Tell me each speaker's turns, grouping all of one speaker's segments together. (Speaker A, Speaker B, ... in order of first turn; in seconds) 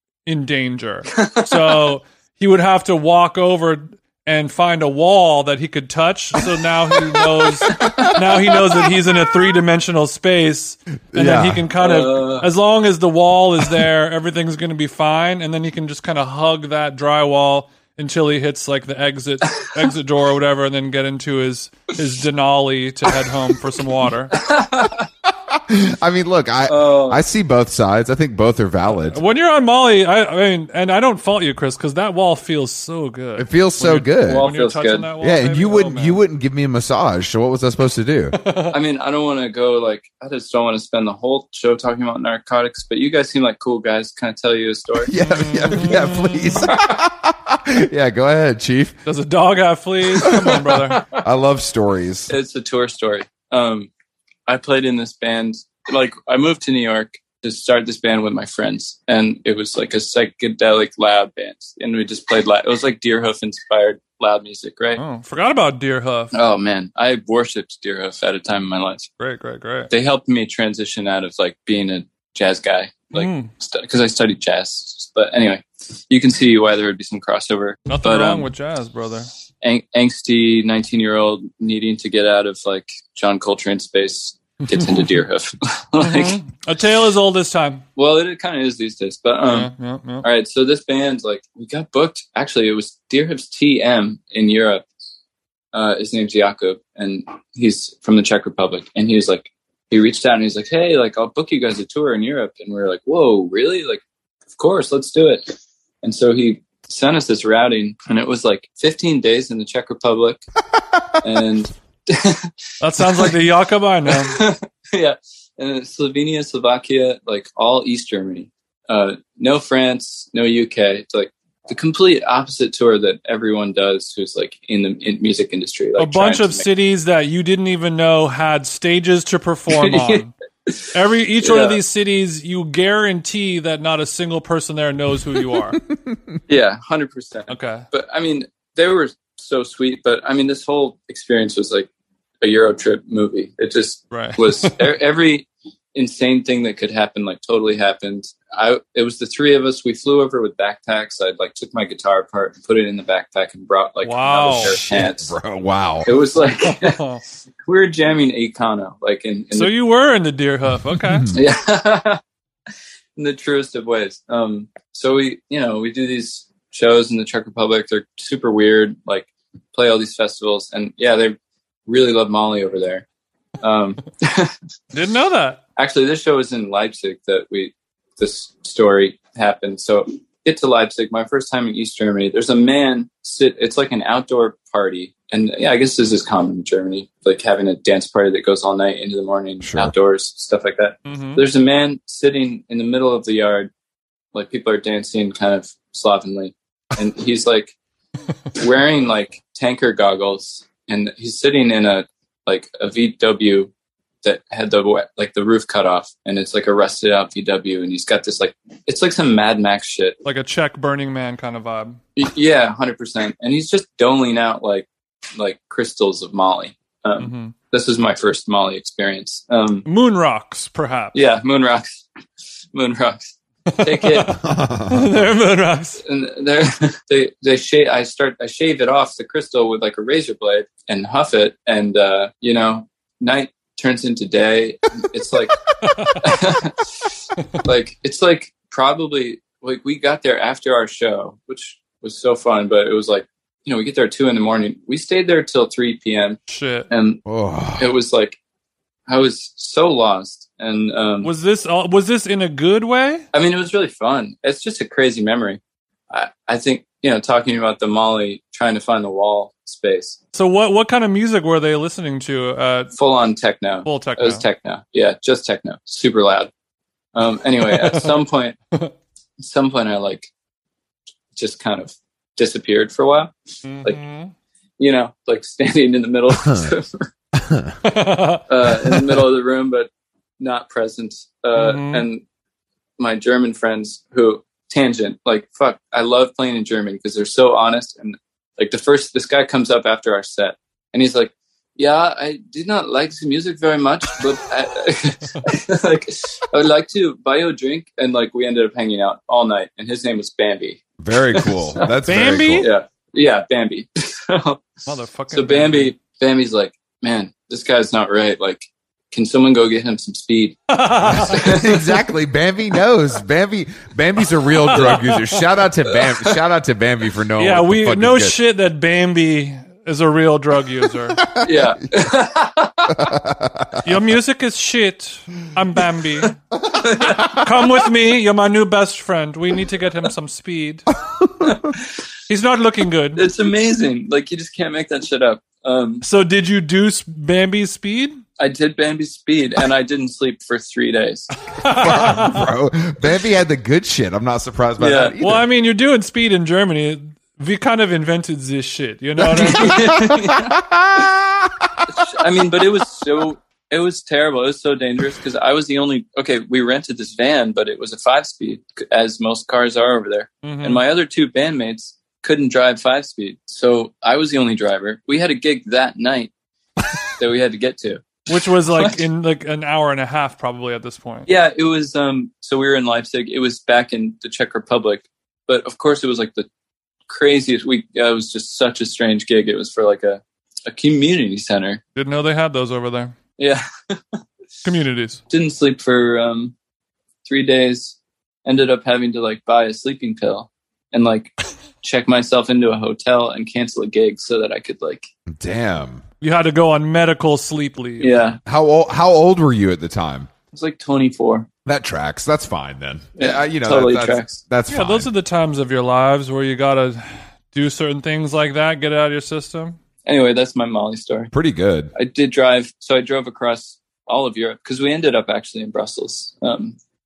Speaker A: 0.2-24.4, 28.9-36.2, 38.3-38.8, 45.2-46.7, 49.0-51.0, 65.0-66.3, 69.2-69.9, 73.1-73.5, 77.9-79.3, 86.0-87.8, 89.5-90.2, 112.8-114.4, 126.0-130.3, 130.9-135.8, 137.5-137.8, 144.1-144.9, 154.0-154.8, 156.6-157.2, 159.5-161.3, 174.9-175.6, 191.1-191.4, 210.2-212.0, 217.2-217.5, 219.8-221.2, 223.7-224.4, 224.9-226.0, 235.8-236.3, 246.5-246.9, 251.2-253.2, 260.3-262.9, 263.8-264.4, 267.7-268.1, 273.6-274.3, 277.8-278.9, 281.5-282.1, 302.1-302.7, 304.9-305.9, 310.7-311.7, 314.6-315.4, 317.4-321.2, 323.8-326.4, 327.1-330.9, 332.3-333.3, 336.0-338.2, 341.6-342.4, 345.2-350.1, 360.4-360.8, 368.3-371.3, 381.9-383.1, 384.6-385.2, 396.2-398.2, 404.7-409.8
Speaker B: 1.1-2.0, 7.7-8.9, 11.8-12.5, 24.3-25.1, 26.7-27.2, 34.2-35.1, 38.7-45.1, 52.3-53.9, 54.5-65.0, 66.3-69.1, 69.9-78.5, 79.6-86.4, 88.0-89.7, 90.2-94.8, 95.7-104.0, 104.5-110.4, 111.2-113.3, 114.0-126.7, 129.7-131.8, 136.5-141.9, 142.4-155.3, 156.0-157.0, 157.6-159.7, 161.3-162.2, 163.2-173.0, 173.6-174.5, 175.8-193.7, 194.3-197.8, 198.5-203.7, 204.2-210.2, 212.2-219.8, 221.1-222.0, 222.7-224.3, 226.0-235.6, 236.2-237.1, 237.6-247.2, 247.8-248.4, 249.1-251.3, 253.3-260.2, 262.9-266.5, 267.1-268.6, 269.4-270.3, 271.3-274.0, 274.8-277.1, 278.5-282.2, 283.0-300.8, 301.3-301.9, 302.6-310.6, 311.2-311.8, 321.4-323.1, 326.8-327.4, 333.1-336.0, 338.4-341.3, 344.8-345.1, 349.2-350.6, 351.9-366.3, 367.2-369.0, 371.3-376.5, 377.1-381.8, 383.4-384.2, 385.3-386.5, 387.2-395.1, 398.0-398.4, 400.5-401.5, 403.2-404.4, 410.0-411.3, 411.9-416.8
Speaker C: 7.8-8.1, 11.1-11.6, 25.3-29.2, 33.4-34.5, 35.2-38.4, 45.0-49.0, 50.2-50.5, 51.1-52.3, 154.6-156.2, 161.1-161.3, 189.6-189.9, 224.3-225.3, 247.2-247.9, 276.4-276.7, 277.4-277.8, 301.0-302.7, 311.0-318.4, 321.2-321.7, 322.9-323.9, 331.2-331.5, 341.6-345.5, 349.9-351.9, 395.3-396.0, 398.4-400.3, 401.6-405.1, 411.3-411.9